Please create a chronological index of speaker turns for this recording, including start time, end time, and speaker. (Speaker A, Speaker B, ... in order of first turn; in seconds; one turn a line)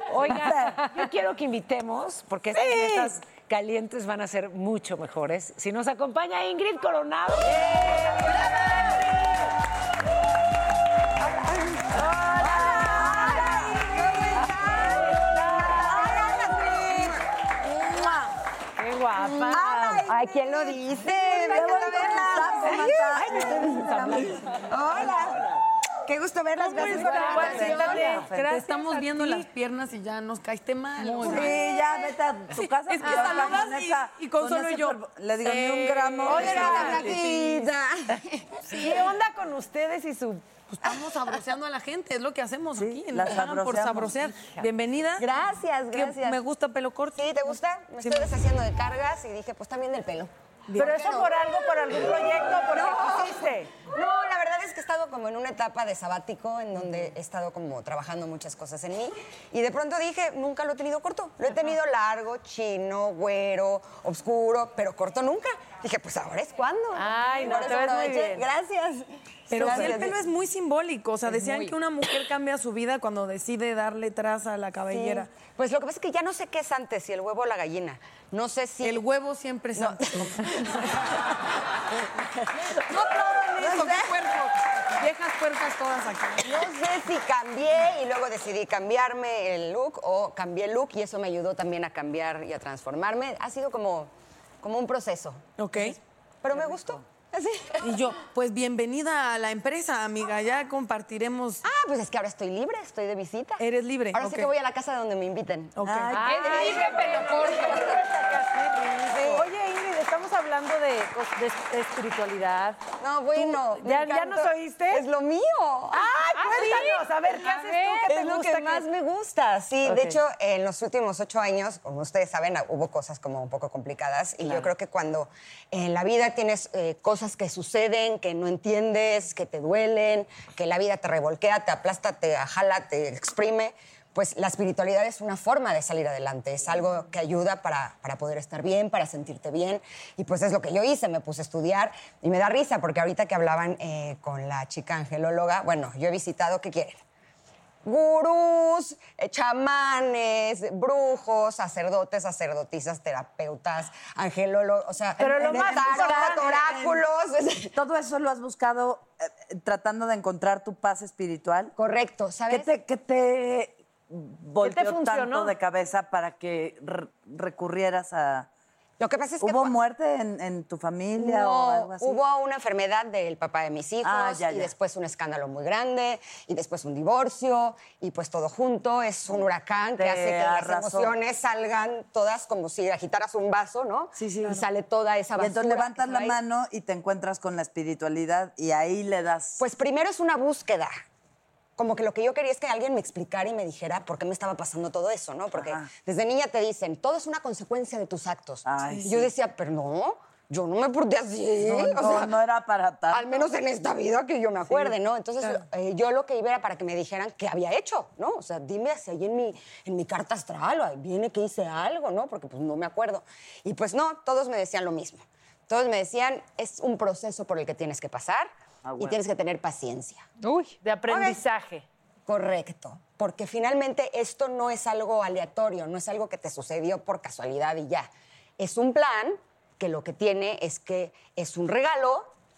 Speaker A: 0.1-8.0
Speaker B: 0.2-0.8
Speaker C: 7.8-8.3
Speaker D: 11.3-11.8
Speaker B: 11.9-17.0
Speaker D: 12.5-17.2
Speaker C: 12.7-13.4
Speaker C: 15.2-16.0
Speaker C: 18.8-20.5
Speaker B: 19.1-20.2
Speaker D: 19.5-23.7
Speaker B: 20.9-25.2
Speaker E: 22.2-22.7
Speaker C: 23.2-24.2
Speaker D: 24.6-25.5
Speaker D: 26.1-27.9
Speaker E: 26.6-31.6
Speaker F: 26.6-29.5
Speaker C: 27.0-28.0
Speaker B: 27.3-28.4
Speaker F: 31.2-31.5
Speaker B: 31.2-37.1
Speaker E: 32.6-37.7
Speaker F: 33.0-33.3
Speaker D: 36.3-38.9
Speaker C: 36.3-37.1
Speaker E: 38.8-39.0
Speaker C: 38.8-40.6
Speaker E: 40.7-45.3
Speaker B: 42.8-44.3
Speaker D: 45.2-46.4
Speaker E: 45.9-48.3
Speaker D: 47.1-50.3
Speaker E: 50.7-51.0
Speaker C: 50.8-53.7
Speaker D: 50.8-70.2
Speaker C: 66.9-68.5
Speaker E: 69.5-75.3
Speaker F: 71.3-71.7
Speaker D: 74.9-79.0
Speaker E: 78.8-81.3
Speaker D: 79.8-81.2
Speaker E: 82.7-86.7
Speaker D: 82.8-84.2
Speaker D: 86.4-95.9
Speaker E: 95.6-96.0
Speaker D: 96.4-98.0
Speaker E: 97.8-101.6
Speaker D: 101.6-103.6
Speaker E: 103.6-104.5
Speaker D: 104.1-105.8
Speaker E: 105.8-106.2
Speaker B: 105.8-106.6
Speaker C: 106.1-112.8
Speaker F: 106.2-108.0
Speaker D: 109.0-109.5
Speaker D: 113.0-116.6
Speaker C: 113.3-115.0
Speaker C: 115.9-118.9
Speaker F: 117.4-118.1
Speaker D: 118.1-147.0
Speaker C: 119.8-120.2
Speaker D: 147.8-157.7
Speaker C: 155.2-156.6
Speaker B: 155.2-157.0
Speaker B: 157.7-161.7
Speaker D: 161.8-162.7
Speaker B: 162.5-168.5
Speaker C: 164.6-165.5
Speaker D: 169.0-169.8
Speaker B: 169.4-172.2
Speaker D: 171.1-186.4
Speaker B: 174.0-174.7
Speaker B: 180.0-181.2
Speaker B: 184.2-184.6
Speaker B: 185.4-189.6
Speaker D: 189.6-190.9
Speaker D: 191.8-202.4
Speaker B: 195.5-195.9
Speaker B: 198.7-199.3
Speaker B: 201.6-203.4
Speaker D: 203.1-220.2
Speaker B: 204.7-204.9
Speaker B: 218.8-219.2
Speaker F: 220.4-220.8
Speaker C: 220.8-221.8
Speaker D: 221.1-221.4
Speaker D: 222.3-228.1
Speaker D: 228.6-232.3